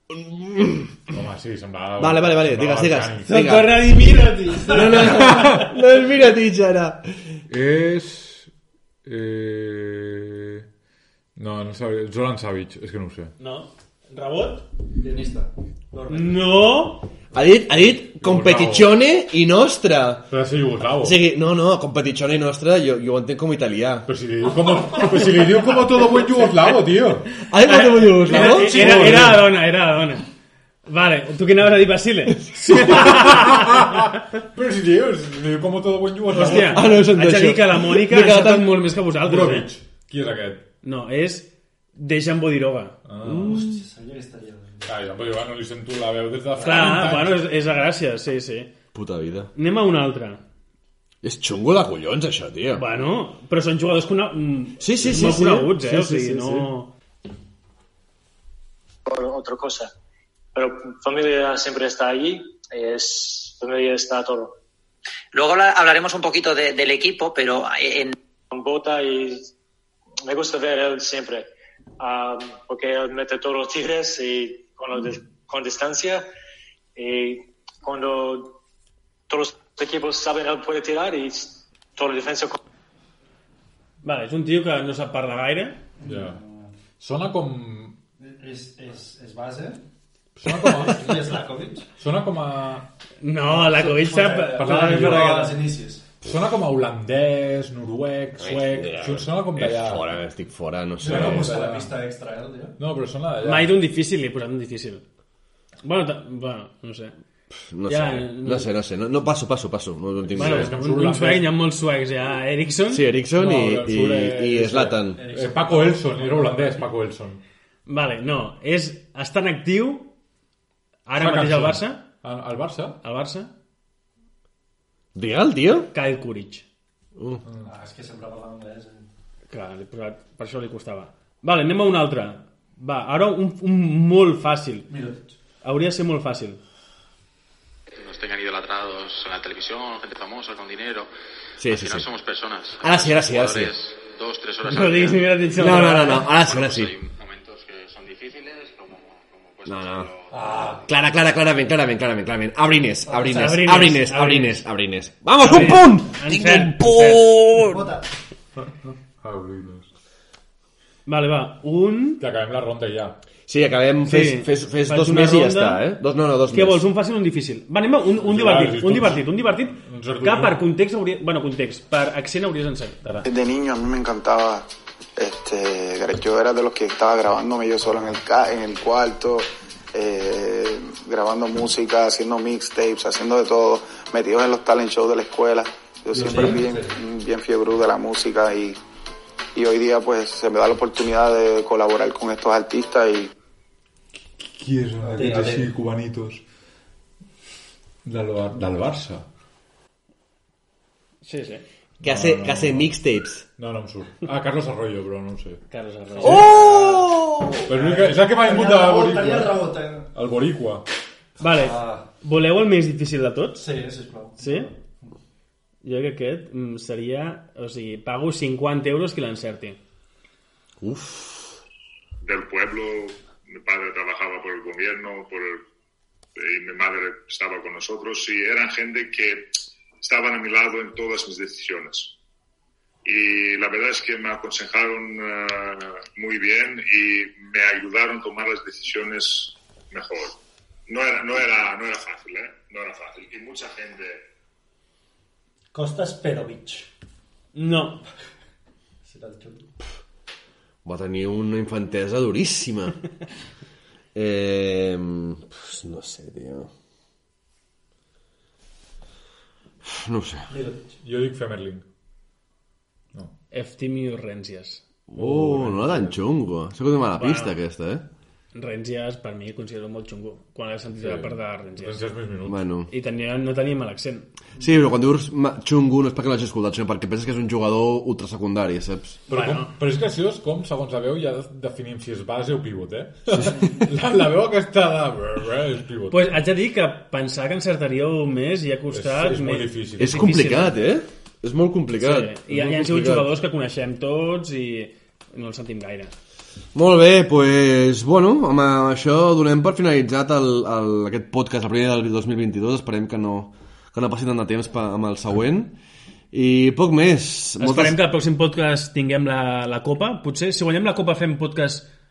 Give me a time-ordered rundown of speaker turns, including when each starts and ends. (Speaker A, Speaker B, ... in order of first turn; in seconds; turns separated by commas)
Speaker A: 0.1-0.9, Speaker B: 1.1-3.5, Speaker A: 2.0-3.9, Speaker C: 3.3-5.7, Speaker A: 4.7-7.0, Speaker B: 5.1-5.6, Speaker B: 7.5-8.5, Speaker B: 9.1-10.6, Speaker B: 11.4-13.3, Speaker C: 13.4-14.7, Speaker D: 15.0-16.6, Speaker C: 16.1-17.1, Speaker A: 17.3-20.3, Speaker B: 17.9-18.9, Speaker B: 20.3-21.2, Speaker A: 21.0-24.1, Speaker B: 24.1-27.3, Speaker A: 27.5-29.3, Speaker C: 27.6-30.3, Speaker B: 28.2-29.5, Speaker C: 30.9-33.8, Speaker B: 32.6-37.0, Speaker C: 36.3-39.7, Speaker A: 36.4-38.7, Speaker B: 39.2-40.6, Speaker C: 40.8-43.0, Speaker B: 43.1-43.6, Speaker A: 43.2-43.8, Speaker D: 43.3-44.9, Speaker B: 44.9-47.4, Speaker C: 46.6-48.7, Speaker A: 48.9-49.5, Speaker C: 49.5-50.4, Speaker A: 51.2-52.9, Speaker C: 52.8-56.9, Speaker A: 54.8-56.7, Speaker E: 59.1-59.9, Speaker E: 60.5-64.6, Speaker F: 65.3-68.1, Speaker E: 68.5-69.5, Speaker E: 70.3-76.2, Speaker E: 77.0-78.6, Speaker E: 79.3-82.6, Speaker C: 84.0-85.8, Speaker D: 86.0-86.7, Speaker B: 86.0-86.4, Speaker B: 87.0-88.0, Speaker D: 88.2-89.8, Speaker B: 90.4-91.3, Speaker D: 90.7-91.9, Speaker B: 92.0-92.9, Speaker C: 93.2-95.2, Speaker D: 93.5-96.0, Speaker B: 94.5-100.0, Speaker A: 98.4-101.5, Speaker D: 101.0-102.8, Speaker B: 101.0-102.0, Speaker B: 102.8-103.7, Speaker C: 103.4-105.0, Speaker C: 105.8-107.2, Speaker A: 107.5-110.7, Speaker C: 107.9-108.7, Speaker B: 110.3-111.5, Speaker C: 110.4-113.0, Speaker A: 112.9-115.2, Speaker B: 113.3-117.4, Speaker D: 115.2-116.8, Speaker C: 117.9-120.1, Speaker C: 121.1-122.0, Speaker B: 121.2-123.0, Speaker C: 123.0-123.5, Speaker A: 125.2-125.9, Speaker C: 125.9-126.7, Speaker A: 127.2-127.4, Speaker D: 127.6-129.1, Speaker C: 129.5-134.9, Speaker D: 134.9-135.3, Speaker C: 135.6-136.6, Speaker G: 138.0-141.1, Speaker A: 141.6-142.1, Speaker G: 141.6-150.8, Speaker A: 142.8-143.7, Speaker C: 144.6-146.3, Speaker A: 145.6-146.9, Speaker A: 149.7-150.1, Speaker D: 150.3-150.8, Speaker A: 150.8-157.9, Speaker C: 153.1-154.6, Speaker C: 155.4-157.2, Speaker D: 157.6-158.1, Speaker B: 158.6-159.9, Speaker C: 161.1-162.2, Speaker B: 162.2-163.2, Speaker A: 163.5-166.9, Speaker C: 164.1-165.8, Speaker C: 166.5-173.3, Speaker B: 168.2-170.6, Speaker H: 173.2-174.7, Speaker H: 175.2-188.8, Speaker D: 186.1-187.0, Speaker B: 186.2-186.6, Speaker H: 189.6-193.3, Speaker B: 194.5-196.4, Speaker D: 195.0-195.7, Speaker B: 198.0-199.2, Speaker C: 201.2-201.6, Speaker B: 202.0-202.9, Speaker A: 202.0-203.4, Speaker B: 203.6-205.6, Speaker C: 205.7-206.9, Speaker B: 206.2-207.0, Speaker A: 206.3-207.6, Speaker B: 207.7-210.8, Speaker D: 207.7-210.1, Speaker C: 211.4-213.6, Speaker D: 211.4-212.1, Speaker D: 213.6-215.1, Speaker C: 214.4-214.7, Speaker C: 215.8-219.8, Speaker A: 220.8-221.6, Speaker I: 222.2-225.7, Speaker I: 226.4-229.5, Speaker I: 230.0-232.2, Speaker I: 233.1-244.2, Speaker D: 245.7-246.9, Speaker C: 247.6-248.0, Speaker D: 249.1-249.7, Speaker A: 250.8-253.0, Speaker A: 254.2-256.7, Speaker A: 259.9-260.5, Speaker D: 260.5-261.0, Speaker B: 261.0-261.8, Speaker C: 263.5-264.8, Speaker A: 265.1-268.0, Speaker B: 265.2-266.1, Speaker C: 267.2-267.6, Speaker C: 268.6-272.0, Speaker B: 271.0-272.6, Speaker A: 272.5-272.9, Speaker C: 272.9-274.3, Speaker A: 274.6-279.2, Speaker C: 279.3-279.7, Speaker B: 279.3-286.3, Speaker A: 283.3-283.7, Speaker C: 286.1-290.8, Speaker B: 288.9-290.5, Speaker A: 290.0-293.3, Speaker C: 292.0-296.1, Speaker A: 296.8-305.8, Speaker A: 306.3-308.0, Speaker C: 307.6-311.9